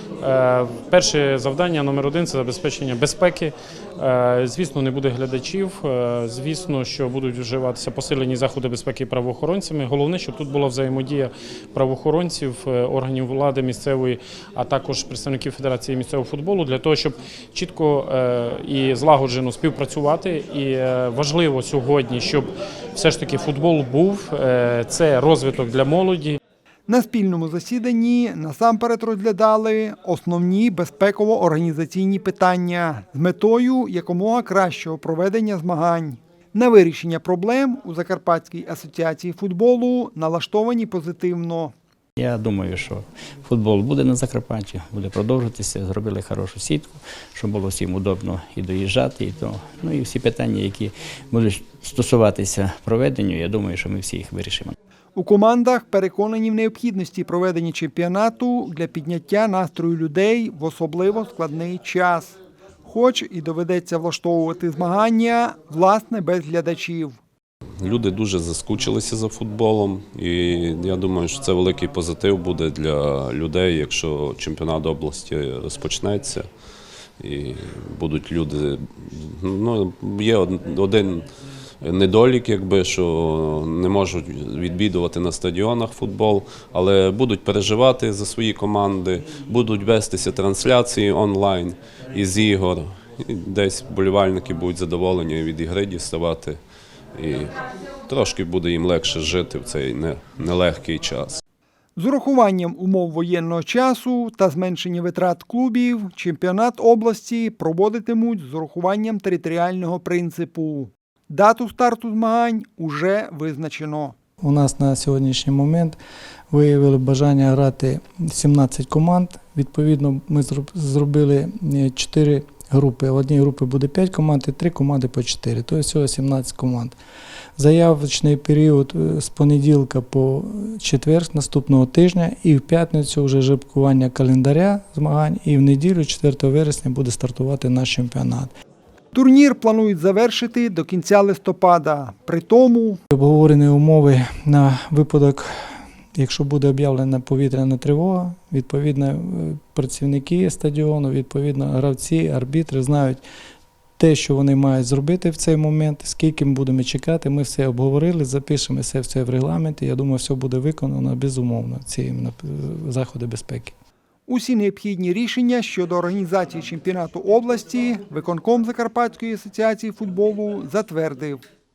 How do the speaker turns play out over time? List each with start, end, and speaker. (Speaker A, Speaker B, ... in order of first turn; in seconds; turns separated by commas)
Speaker A: 0.2-26.4, Speaker B: 26.9-41.7, Speaker C: 42.2-54.7, Speaker B: 55.1-67.2, Speaker D: 67.8-76.5, Speaker D: 77.2-81.3, Speaker D: 81.8-96.6, Speaker D: 97.2-97.5, Speaker D: 98.1-101.4, Speaker B: 102.0-114.2, Speaker E: 114.4-116.0, Speaker E: 116.5-127.0, Speaker E: 127.6-138.5, Speaker B: 139.1-143.0, Speaker E: 143.1-153.2, Speaker E: 154.0-163.7, Speaker B: 164.3-171.4